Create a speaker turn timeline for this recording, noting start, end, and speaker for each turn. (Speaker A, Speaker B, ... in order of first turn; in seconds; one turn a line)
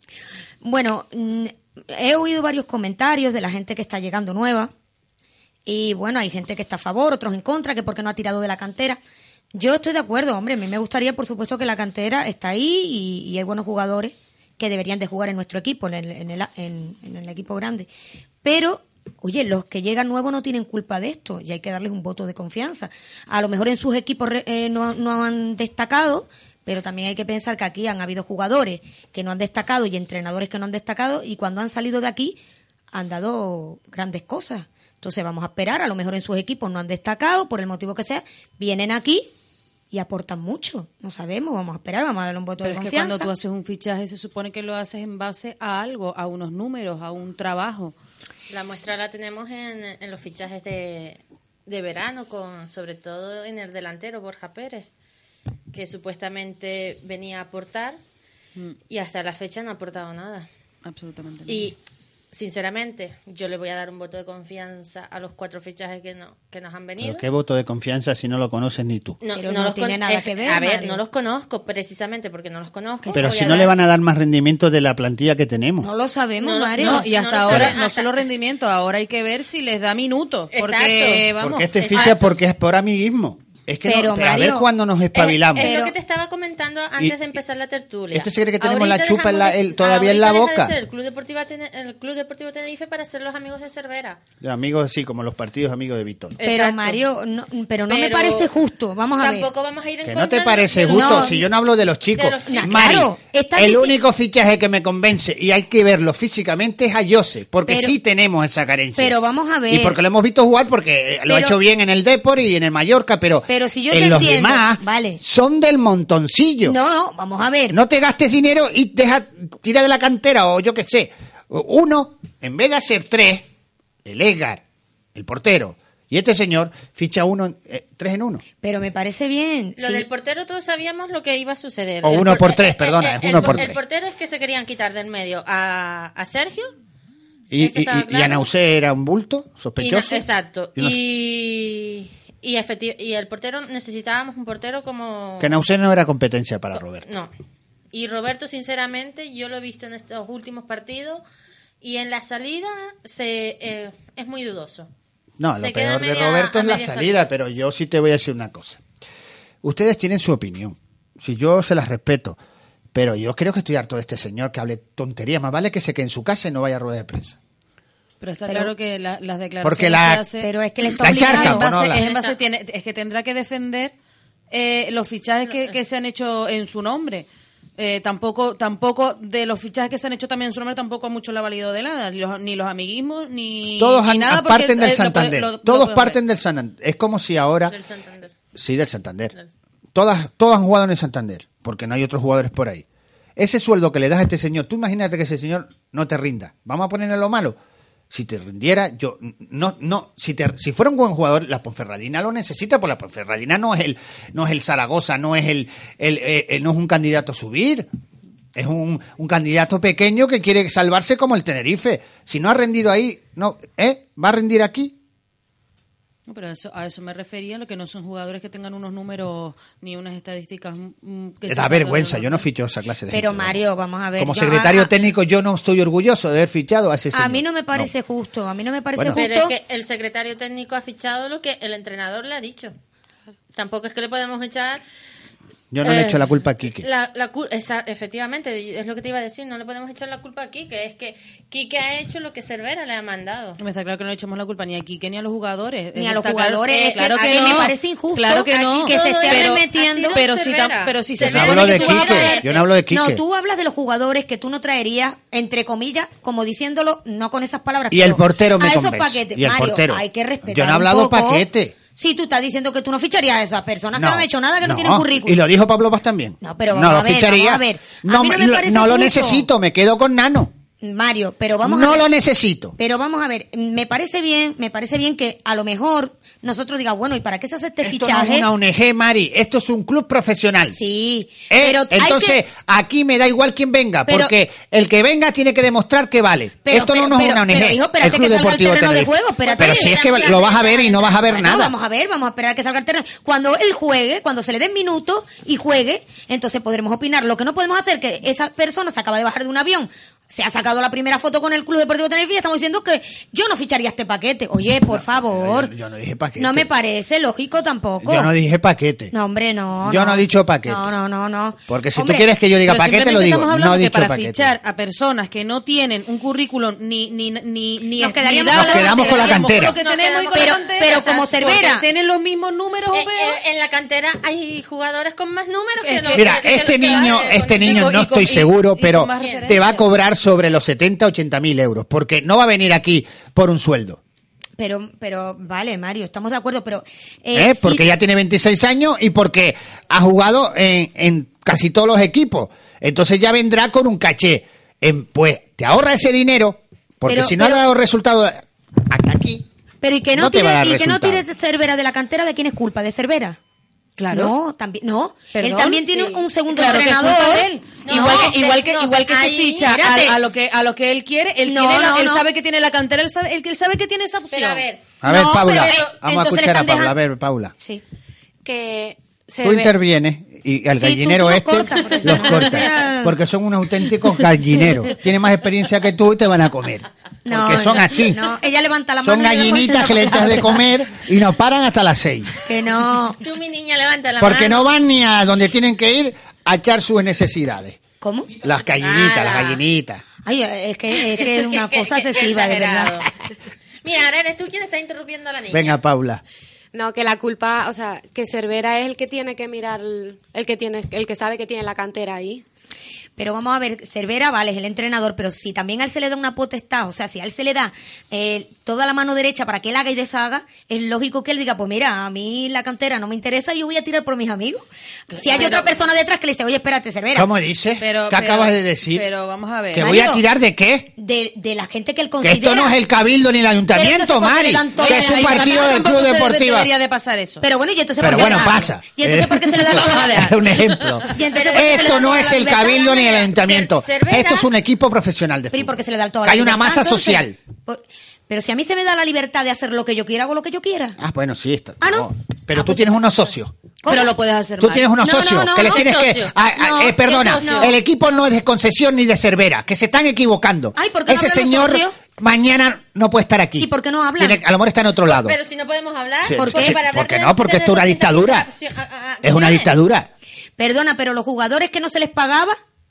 Speaker A: 0.6-4.7
Speaker A: 5.7-9.0
Speaker A: 9.5-17.9
Speaker A: 18.4-32.4
Speaker A: 32.9-39.3
Speaker A: 39.9-43.3
Speaker B: 42.6-47.9
Speaker C: 48.5-54.9
Speaker C: 55.7-58.0
Speaker C: 58.9-60.5
Speaker B: 60.8-61.7
Speaker C: 61.5-61.8
Speaker C: 62.3-67.2
Speaker D: 67.0-69.2
Speaker C: 69.2-73.8
Speaker A: 69.3-71.0
Speaker A: 73.0-73.3
Speaker D: 73.1-75.9
Speaker A: 75.8-77.1
Speaker C: 76.4-78.3
Speaker B: 76.8-82.1
Speaker C: 80.5-82.3
Speaker D: 81.4-85.7
Speaker A: 83.8-84.7
Speaker C: 85.1-94.2
Speaker A: 85.5-85.9
Speaker D: 88.1-90.7
Speaker D: 94.4-96.4
Speaker C: 96.4-97.0
Speaker A: 96.4-99.5
Speaker C: 97.9-98.5
Speaker C: 99.2-101.5
Speaker D: 100.0-109.2
Speaker A: 100.9-101.4
Speaker C: 102.1-103.0
Speaker A: 102.5-104.0
Speaker A: 107.7-108.0
Speaker A: 109.0-110.0
Speaker D: 109.7-116.8
Speaker A: 111.3-111.5
Speaker A: 113.5-115.2
Speaker A: 116.6-117.8
Speaker D: 117.7-123.5
Speaker D: 124.0-124.6
Speaker D: 125.1-128.4
Speaker A: 128.6-130.1
Speaker C: 129.8-136.7
Speaker D: 132.0-133.8
Speaker D: 137.5-141.0
Speaker C: 137.6-138.5
Speaker C: 139.8-145.6
Speaker D: 145.4-147.1
Speaker C: 146.7-147.3
Speaker C: 147.9-151.2
Speaker C: 151.8-154.9
Speaker D: 155.4-158.8
Speaker C: 155.6-157.2
Speaker D: 159.6-162.4
Speaker D: 162.9-167.4
Speaker B: 168.2-170.5
Speaker D: 169.6-170.2
Speaker A: 170.4-171.6
Speaker D: 171.0-172.0
Speaker B: 171.0-173.9
Speaker C: 171.9-172.4
Speaker B: 174.5-186.2
Speaker D: 183.8-187.7
Speaker C: 187.7-188.3
Speaker D: 188.5-189.3
Speaker D: 189.9-192.8
Speaker D: 193.4-197.6
Speaker D: 198.1-207.9
Speaker D: 208.5-214.9
Speaker B: 216.3-222.4
Speaker D: 221.5-223.6
Speaker A: 223.1-224.9
Speaker D: 224.2-227.9
Speaker A: 227.1-229.5
Speaker D: 229.0-229.2
Speaker C: 229.1-232.7
Speaker C: 233.5-234.8
Speaker D: 235.7-236.8
Speaker C: 235.8-236.2
Speaker C: 236.8-243.6
Speaker B: 243.6-252.4
Speaker A: 245.9-250.2
Speaker C: 248.5-252.6
Speaker D: 251.2-253.2
Speaker A: 252.9-265.4
Speaker D: 257.9-261.7
Speaker D: 263.9-270.5
Speaker A: 266.4-269.5
Speaker A: 270.8-272.1
Speaker D: 271.6-272.8
Speaker A: 272.8-278.5
Speaker D: 277.8-280.8
Speaker A: 280.7-282.4
Speaker D: 281.5-291.7
Speaker A: 284.1-284.3
Speaker A: 286.6-290.4
Speaker C: 289.4-291.3
Speaker A: 291.3-305.7
Speaker D: 304.9-306.7
Speaker A: 306.4-308.3
Speaker D: 308.0-309.1
Speaker A: 309.1-312.3
Speaker D: 309.8-310.9
Speaker D: 311.7-314.5
Speaker B: 312.6-323.4
Speaker A: 318.0-319.4
Speaker D: 318.5-319.7
Speaker C: 319.5-321.3
Speaker A: 320.3-321.8
Speaker C: 322.9-328.0
Speaker B: 325.8-329.8
Speaker D: 326.1-334.0
Speaker C: 329.1-329.5
Speaker A: 334.6-337.9
Speaker D: 337.3-349.4
Speaker A: 347.1-347.6
Speaker A: 349.8-353.4
Speaker D: 350.1-351.2
Speaker B: 354.0-354.3
Speaker A: 354.1-358.3
Speaker B: 355.3-364.7
Speaker C: 357.8-359.8
Speaker A: 359.7-360.2
Speaker A: 361.4-362.2
Speaker C: 364.3-364.9
Speaker D: 365.0-367.5
Speaker A: 365.0-366.9
Speaker E: 368.4-369.7
Speaker D: 369.4-378.2
Speaker A: 370.8-373.2
Speaker A: 377.2-380.6
Speaker D: 379.0-382.3
Speaker A: 382.4-383.2
Speaker C: 383.2-384.6
Speaker D: 384.2-387.8
Speaker A: 388.0-388.3
Speaker D: 388.4-390.0
Speaker C: 388.8-389.6
Speaker A: 390.2-393.1
Speaker C: 391.0-393.1
Speaker C: 393.8-395.8
Speaker D: 395.5-396.2
Speaker E: 396.7-402.4
Speaker A: 403.2-417.3
Speaker B: 415.2-415.6
Speaker C: 415.3-415.6
Speaker D: 417.1-419.0
Speaker B: 417.8-419.9
Speaker D: 419.7-420.9
Speaker A: 419.8-420.2
Speaker A: 421.0-422.8
Speaker D: 422.2-426.7
Speaker A: 423.7-425.8
Speaker B: 424.8-427.4
Speaker A: 427.4-430.3
Speaker D: 428.0-437.4
Speaker B: 428.1-428.4
Speaker B: 429.7-431.1
Speaker A: 431.1-433.0
Speaker C: 431.3-434.5
Speaker A: 435.5-441.0
Speaker D: 441.0-443.5
Speaker A: 441.8-442.9
Speaker A: 443.8-444.1
Speaker B: 443.9-444.9
Speaker D: 444.6-455.4
Speaker A: 445.0-446.0
Speaker C: 445.6-446.4
Speaker A: 446.6-447.7
Speaker C: 446.9-447.8
Speaker A: 450.7-451.9
Speaker A: 453.6-454.4
Speaker C: 455.1-459.7
Speaker D: 456.2-458.5
Speaker A: 456.4-456.8
Speaker D: 459.2-460.1
Speaker A: 460.6-462.6